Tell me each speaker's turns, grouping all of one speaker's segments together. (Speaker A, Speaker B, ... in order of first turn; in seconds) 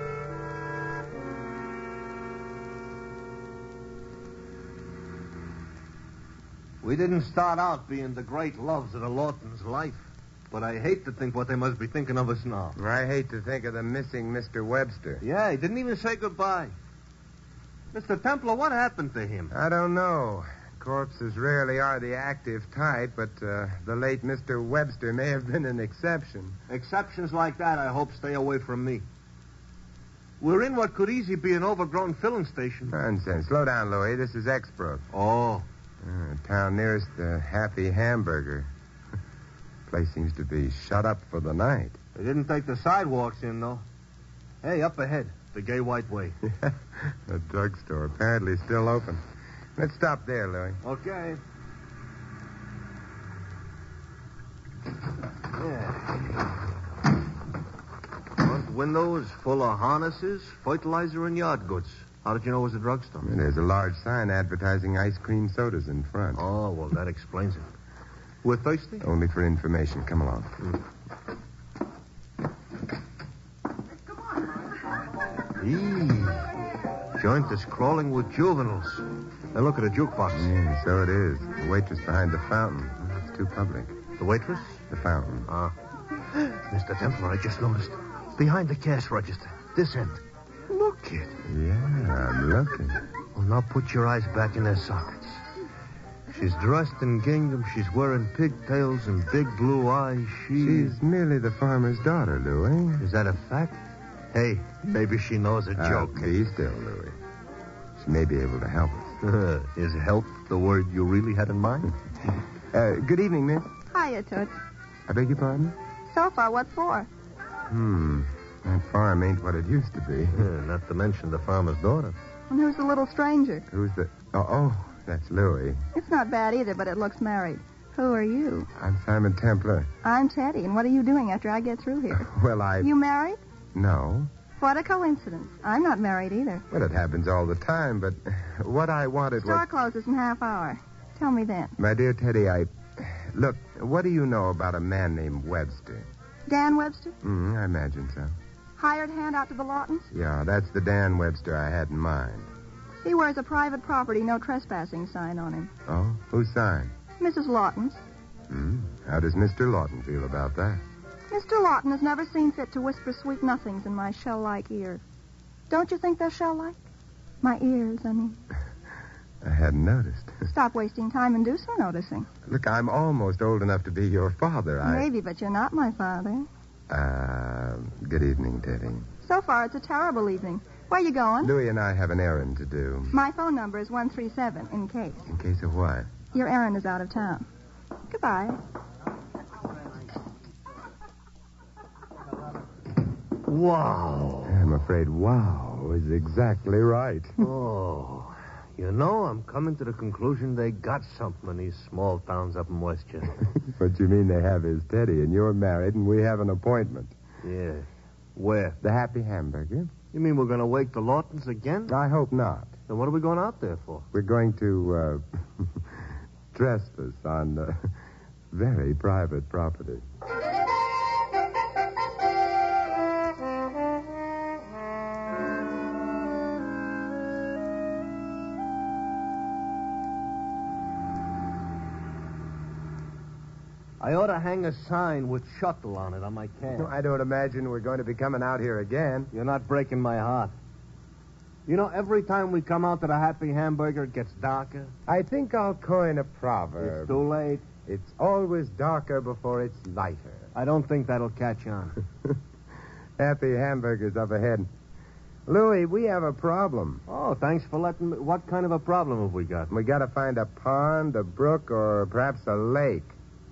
Speaker A: 6.8-12.8, 15.2-16.7, 17.9-19.5, 26.7-29.0, 30.4-32.9, 35.1-35.6, 42.1-43.8, 44.6-46.4, 50.8-51.4, 55.5-56.3, 58.4-63.3, 66.3-67.7, 68.4-69.0, 75.6-76.5, 77.2-80.5, 84.2-84.8, 85.5-85.7, 86.3-91.4, 93.3-95.4, 96.3-100.9, 103.0-106.3, 109.2-111.9, 120.3-122.2, 193.4-194.6, 197.4-203.4, 207.4-208.8, 210.1-211.9, 212.9-214.1, 234.0-236.9, 239.3-240.5, 241.7-244.9, 246.8-247.6, 250.5-252.0, 257.1-259.7
Speaker B: 12.8-15.2, 19.5-26.6, 32.9-35.0, 36.0-38.7, 39.9-42.0, 46.6-49.2, 49.8-50.8, 63.2-66.4, 69.0-70.6, 80.3-84.0, 84.9-85.5, 91.5-93.0, 100.6-103.0, 105.8-107.2, 108.0-109.1, 112.7-113.7, 115.1-115.8, 117.7-120.5, 123.7-125.8, 128.8-129.9, 132.1-132.9, 133.7-134.3, 136.7-139.6, 141.8-146.1, 147.2-148.3, 150.1-152.5, 155.9-156.9, 158.5-160.8, 169.4-170.4, 172.4-175.1, 176.9-179.1, 181.4-183.1, 185.3-186.1, 194.4-197.4, 203.6-207.1, 208.8-209.9, 211.9-212.8, 214.1-217.9, 218.5-220.0, 236.7-239.3, 245.1-247.2, 247.8-250.5, 253.2-254.7, 255.5-257.0, 259.7-263.1
Speaker C: 113.9-114.5, 116.1-117.1, 122.5-123.7, 125.9-128.7, 130.0-132.3, 132.8-133.4, 134.6-136.6, 139.4-141.7, 146.5-147.1, 148.8-150.1, 153.0-155.7, 157.2-158.0, 161.3-165.0, 165.7-166.8, 167.4-168.4, 170.5-172.3, 174.8-176.5, 179.2-181.5, 183.1-185.2, 186.3-187.5, 188.1-188.6